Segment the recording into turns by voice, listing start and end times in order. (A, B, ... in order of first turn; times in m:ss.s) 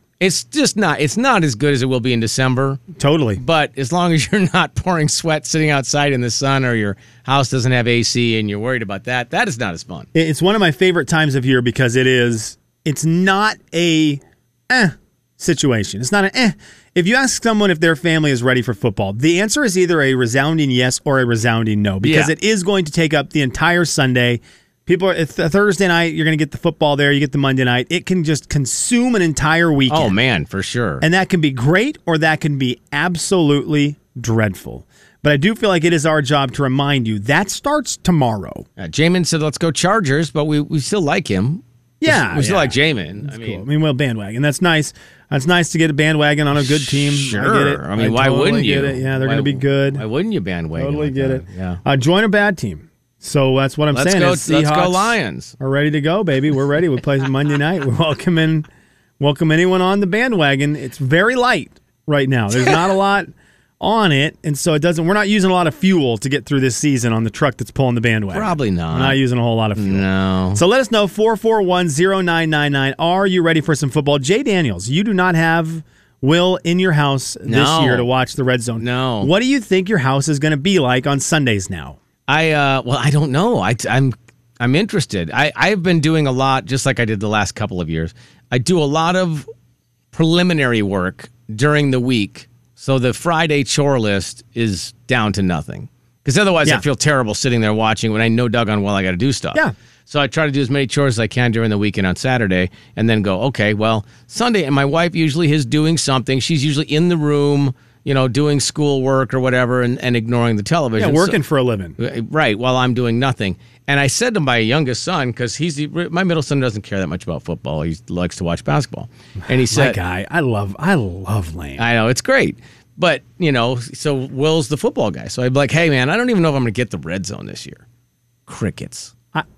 0:00.2-0:02.8 A
0:03.0-0:03.4 B
0:03.4-0:10.1 A
0:10.1-0:30.2 B
0:22.0-0:22.3 A
0:29.9-0:31.0 A
0:31.0-0:38.7 B
0:38.8-0:43.6 A
0:42.0-0:50.0 B
0:46.6-0:51.8 A
0:50.8-0:58.7 B
0:53.9-0:55.5 A
0:59.2-1:22.0 B
1:08.3-1:09.2 A
1:09.8-1:10.6 A
1:17.5-1:18.1 A
1:18.8-1:19.3 A
1:22.3-1:29.5 A
1:30.1-1:51.4 A
1:51.0-1:52.0 B
1:52.0-2:00.0 A
1:59.5-2:01.8 B
2:01.8-2:07.8 A
2:08.5-2:09.1 A